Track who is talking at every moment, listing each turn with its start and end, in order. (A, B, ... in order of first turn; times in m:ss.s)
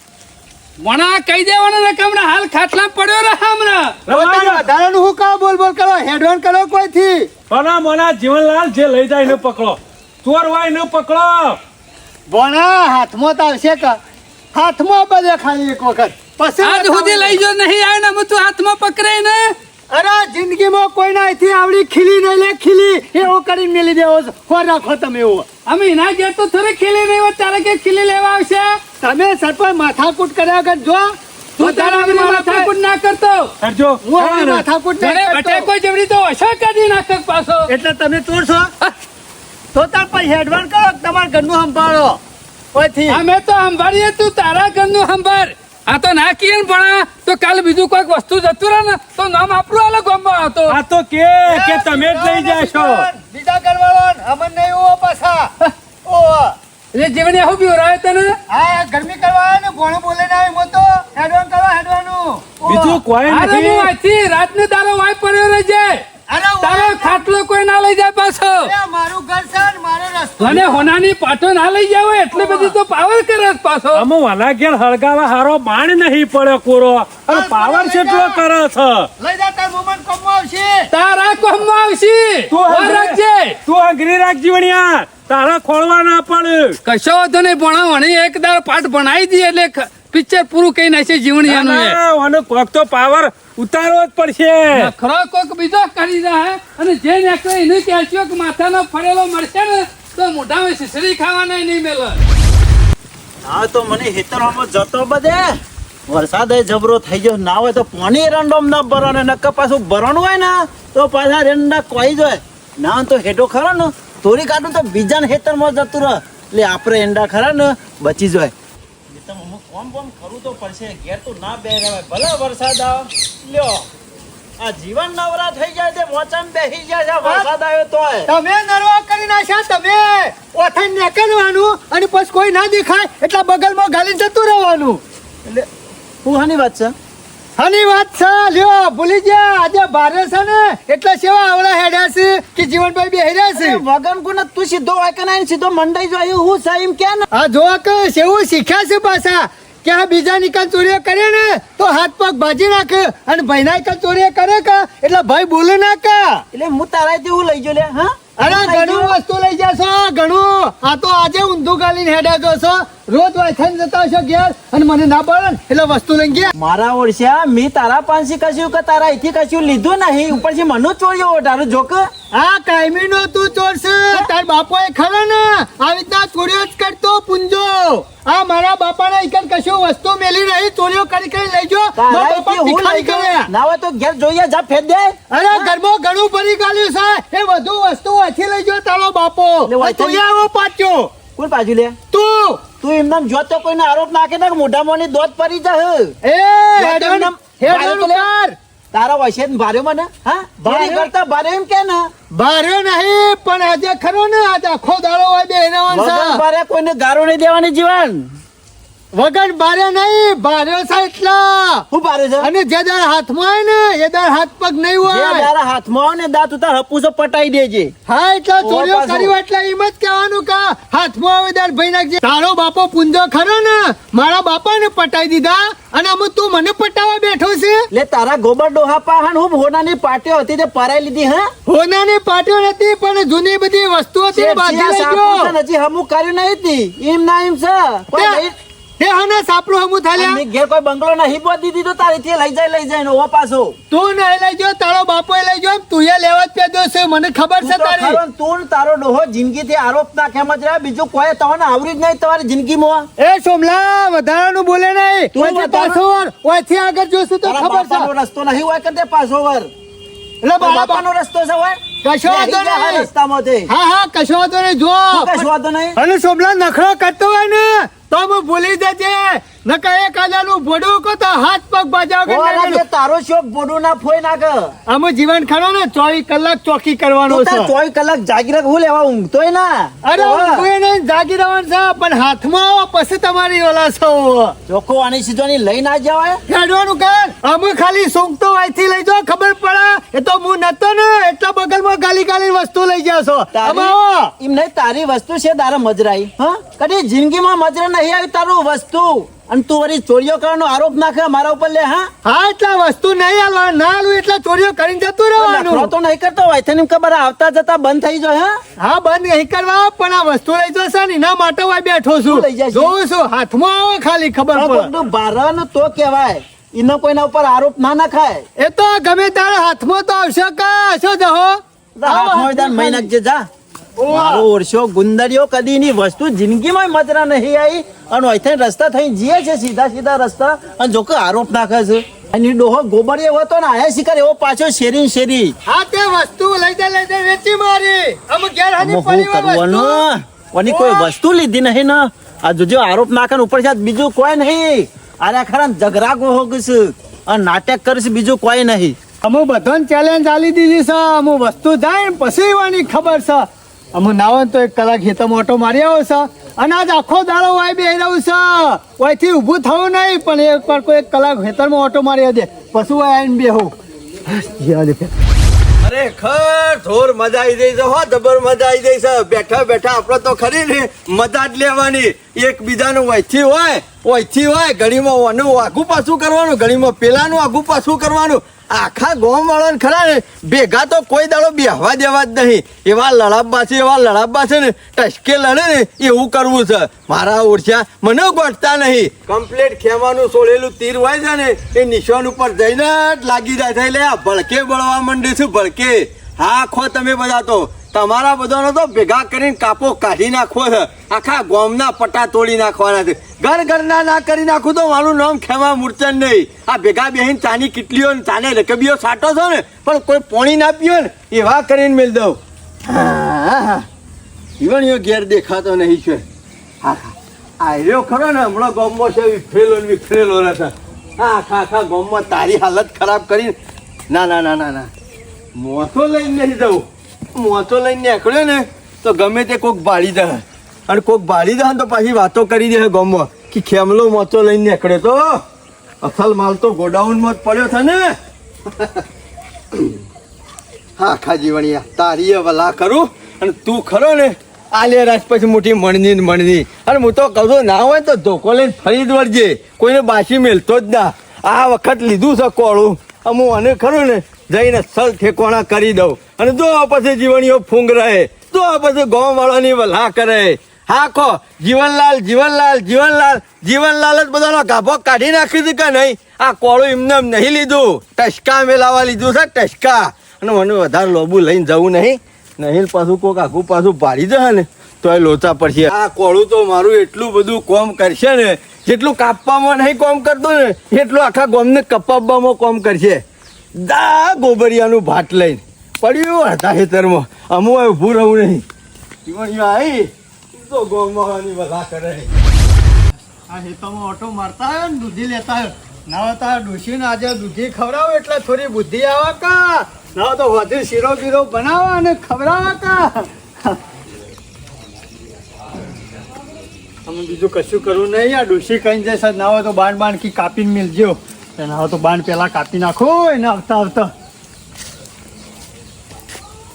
0:00.8-0:04.0 A
0:04.1-0:04.7 B
0:04.1-0:07.3 C
0:07.5-0:11.6 B
0:12.3-0:14.0 C
0:14.5-0:17.4 C
0:16.6-0:19.5 A
0:19.9-0:25.5 C
0:25.6-0:28.8 A
0:29.0-0:32.7 C
0:31.6-0:33.5 A
0:33.6-0:34.6 B
0:34.0-0:35.7 C
0:35.0-0:37.7 A
0:37.7-0:38.7 C
0:39.7-0:42.2 C
0:42.7-0:43.2 C
0:43.1-0:50.8 A
0:50.7-0:53.0 B
0:51.5-0:56.5 C
0:56.9-0:58.4 A
0:58.5-1:03.0 C
1:02.6-1:03.9 B
1:03.3-1:06.0 A
1:06.3-1:07.2 C
1:06.6-1:08.7 A
1:08.6-1:10.9 C
1:10.4-1:14.0 A
1:12.3-1:12.7 C
1:13.9-1:19.1 B
1:17.3-1:18.4 C
1:19.2-1:20.9 C
1:20.9-1:23.6 A
1:22.5-1:26.8 B
1:22.6-1:23.0 C
1:26.8-1:32.0 A
1:31.4-1:34.9 B
1:34.7-1:42.2 A
1:43.4-1:58.5 D
1:59.1-2:03.8 D
2:04.6-2:08.3 D
2:08.3-2:15.0 C
2:16.2-2:16.9 D
2:17.6-2:23.8 C
2:23.5-2:27.3 D
2:27.3-2:36.4 C
2:36.5-2:39.2 D
2:38.4-2:46.5 C
2:46.5-2:52.1 D
2:52.3-3:03.5 C
3:02.0-3:05.7 D
3:05.3-3:11.1 C
3:09.6-3:10.2 D
3:11.4-3:12.0 D
3:12.1-3:12.6 C
3:12.8-3:16.1 D
3:16.2-3:18.6 C
3:16.8-3:18.3 D
3:18.9-3:22.1 D
3:20.6-3:21.1 C
3:22.3-3:26.4 C
3:25.9-3:28.3 D
3:29.1-3:31.8 C
3:31.9-3:32.5 D
3:32.4-3:35.5 C
3:35.0-3:37.9 D
3:38.1-3:47.9 C
3:38.6-3:39.3 D
3:47.9-3:51.5 D
3:51.6-3:55.5 C
3:54.3-3:58.5 D
3:58.1-3:58.4 C
3:59.0-4:00.4 C
4:00.1-4:03.8 D
4:03.9-4:08.2 C
4:07.6-4:13.1 D
4:13.2-4:18.1 C
4:15.3-4:16.0 D
4:17.4-4:19.7 D
4:20.4-4:21.0 C
4:20.6-4:23.7 D
4:22.0-4:23.1 C
4:23.7-4:32.8 C
4:25.1-4:26.0 D
4:32.2-4:34.7 D
4:34.9-4:37.7 C
4:37.3-4:40.7 D
4:40.0-4:44.5 C
4:44.7-4:46.4 D
4:46.5-4:54.3 C
4:53.5-5:02.1 D
5:02.2-5:05.9 C
5:05.4-5:08.6 D
5:08.8-5:14.9 C
5:12.3-5:12.9 D
5:14.5-5:18.4 D
5:18.6-5:23.1 C
5:22.0-5:23.5 D
5:24.0-5:24.4 C
5:24.1-5:35.6 D
5:35.6-5:40.0 C
5:38.8-5:49.0 D
5:40.6-5:41.1 C
5:49.2-6:03.7 C
6:04.2-6:05.1 C
6:05.8-6:53.8 E
6:54.6-6:56.2 E
6:56.8-7:03.5 E
7:04.1-7:04.9 E
7:05.5-7:06.8 E
7:07.4-7:15.4 E
7:16.0-7:18.1 E
7:18.8-7:19.0 E
7:21.0-8:03.2 E
8:03.8-8:08.6 E
8:09.2-8:12.3 E
8:13.5-8:23.8 C
8:27.0-8:34.1 C